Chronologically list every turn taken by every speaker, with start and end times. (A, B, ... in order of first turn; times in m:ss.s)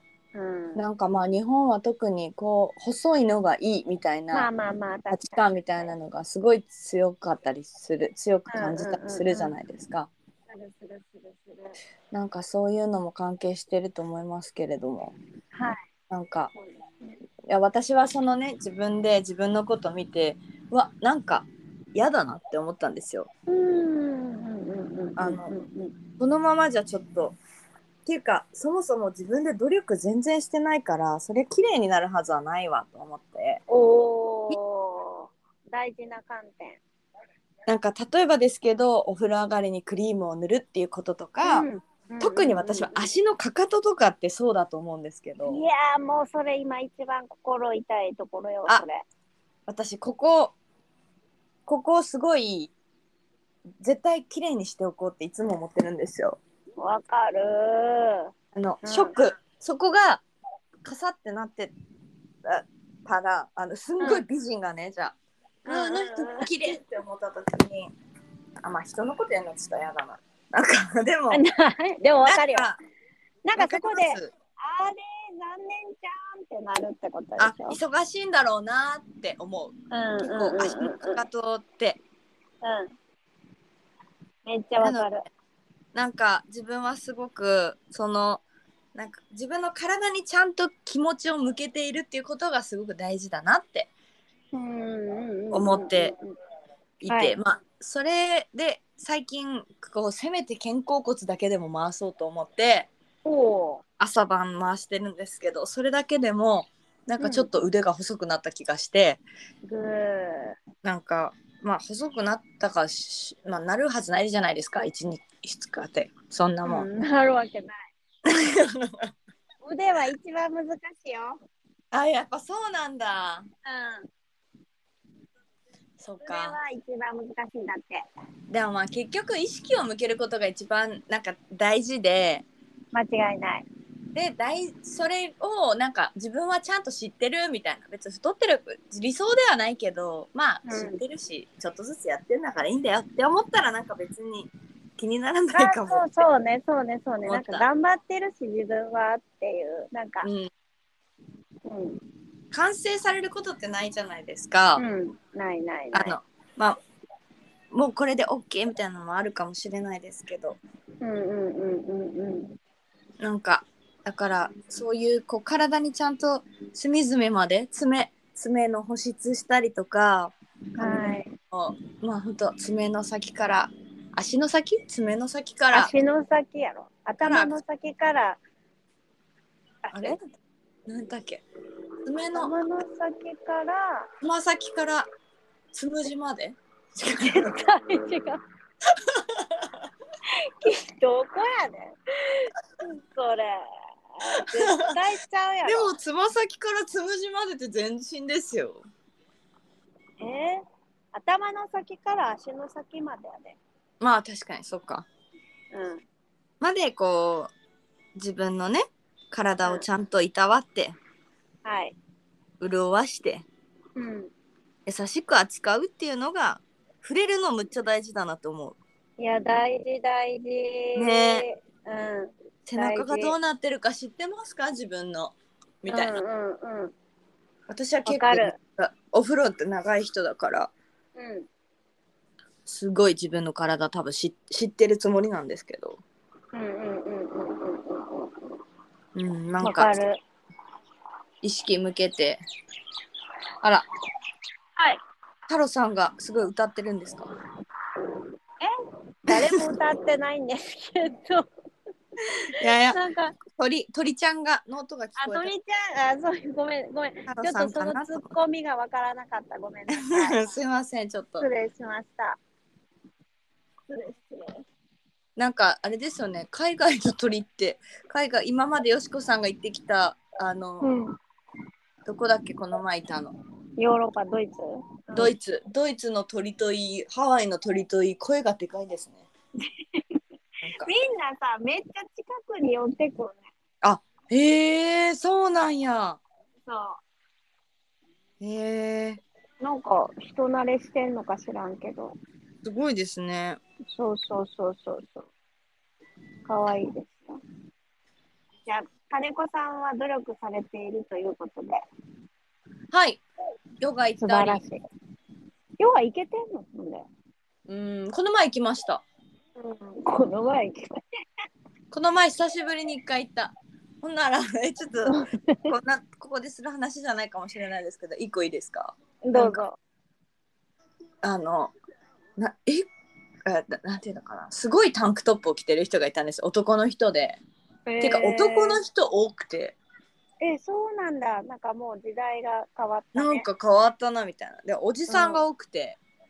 0:00.4-0:00.8 A
0:00.8-0:04.5 B
0:04.3-0:05.9 A
0:05.1-0:10.1 B
0:08.5-0:09.5 A
0:10.5-0:11.8 A
0:12.1-0:15.2 B
0:15.5-0:15.9 A
0:16.1-0:16.5 B
0:16.6-0:17.1 A
0:17.5-0:23.3 B
0:23.5-0:26.0 A
0:25.2-0:25.5 B
0:26.2-0:27.4 B
0:28.1-0:33.6 B
0:33.7-0:36.8 A
0:37.7-0:41.7 B
0:41.4-0:43.1 A
0:42.2-0:45.6 B
0:45.4-0:49.0 A
0:49.7-0:50.6 B
0:51.7-0:52.7 B
0:53.8-0:56.4 B
0:56.8-0:58.3 A
0:58.6-1:00.2 B
0:58.8-0:59.2 A
1:00.8-1:01.7 B
1:02.4-1:05.2 B
1:05.7-1:06.5 A
1:05.7-1:07.9 B
1:08.6-1:11.4 B
1:11.3-1:12.7 A
1:12.2-1:12.8 B
1:13.4-1:17.8 A
1:13.6-1:14.3 B
1:17.4-1:22.0 B
1:19.9-1:21.2 A
1:22.6-1:22.9 A
1:24.4-1:25.2 A
1:24.8-1:25.1 B
1:25.9-1:28.4 B
1:29.0-1:33.9 B
1:34.5-1:36.4 A
1:35.5-1:36.1 B
1:37.0-1:42.9 B
1:37.1-1:37.4 A
1:43.2-1:43.8 A
1:44.0-1:49.2 B
1:47.2-1:47.5 A
1:49.6-1:50.6 A
1:50.8-1:56.9 B
1:56.6-1:57.9 A
1:58.2-1:59.1 B
1:59.6-2:01.4 A
2:01.9-2:03.5 B
2:03.7-2:04.1 A
2:06.0-2:06.6 B
2:06.2-2:08.0 A
2:08.5-2:12.4 B
2:12.9-2:13.7 A
2:14.1-2:26.2 B
2:20.7-2:21.0 A
2:25.5-2:30.3 A
2:27.3-2:27.7 B
2:30.2-2:30.5 B
2:31.7-2:32.0 A
2:32.5-2:34.8 B
2:34.8-2:36.2 A
2:35.9-2:36.8 B
2:37.7-2:40.6 B
2:41.0-2:42.6 A
2:43.2-2:55.9 B
2:50.8-2:51.3 A
2:55.7-2:58.4 A
2:57.2-2:57.6 B
2:59.8-3:00.2 A
2:59.9-3:00.2 B
3:00.9-3:01.4 B
3:02.0-3:02.5 B
3:02.3-3:04.1 A
3:04.2-3:05.1 B
3:05.7-3:07.5 B
3:07.2-3:08.4 A
3:08.9-3:09.7 B
3:10.6-3:12.5 A
3:13.1-3:15.9 A
3:14.4-3:14.9 B
3:15.7-3:18.9 B
3:20.2-3:23.6 A
3:24.0-3:25.1 B
3:25.7-3:26.0 A
3:26.6-3:27.5 B
3:28.2-3:31.0 B
3:31.6-3:32.0 A
3:32.6-3:33.5 B
3:34.0-3:34.3 A
3:34.9-3:38.8 B
3:39.2-3:43.4 A
3:41.0-3:41.5 B
3:42.7-3:46.2 B
3:45.9-3:46.9 A
3:47.7-3:50.7 B
3:48.0-3:48.6 A
3:51.2-3:51.5 A
3:52.7-3:56.0 B
3:56.5-3:58.6 A
3:59.2-4:00.0 B
3:59.6-4:00.2 A
4:01.4-4:02.4 B
4:05.5-4:07.3 B
4:09.3-4:11.5 A
4:12.2-4:13.4 A
4:12.6-4:13.0 B
4:13.5-4:15.5 B
4:15.2-4:20.5 A
4:17.3-4:18.3 B
4:19.9-4:21.5 B
4:21.4-4:22.4 A
4:23.9-4:24.6 A
4:25.4-4:30.9 B
4:30.8-4:31.2 A
4:32.1-4:33.3 B
4:33.8-4:35.3 A
4:35.2-4:39.2 B
4:39.6-4:40.0 A
4:40.6-4:40.9 B
4:40.8-4:43.5 A
4:43.8-4:46.2 B
4:46.7-4:47.0 A
4:48.4-4:49.2 B
4:49.6-4:52.2 A
4:52.6-4:53.6 B
4:53.9-4:55.3 A
4:56.5-4:57.4 A
4:58.6-5:01.8 A
5:02.9-5:03.2 B
5:03.8-5:04.6 B
5:04.2-5:04.8 A
5:05.8-5:07.1 A
5:07.7-5:09.0 B
5:09.6-5:11.0 A
5:11.9-5:19.6 B
5:15.1-5:15.7 A
5:19.3-5:19.8 A
5:21.2-5:21.7 B
5:22.4-5:22.9 B
5:23.4-5:27.4 B
5:27.9-5:28.8 A
5:28.0-5:29.8 B
5:30.4-5:33.5 A
5:33.2-5:36.0 B
5:35.1-5:35.4 A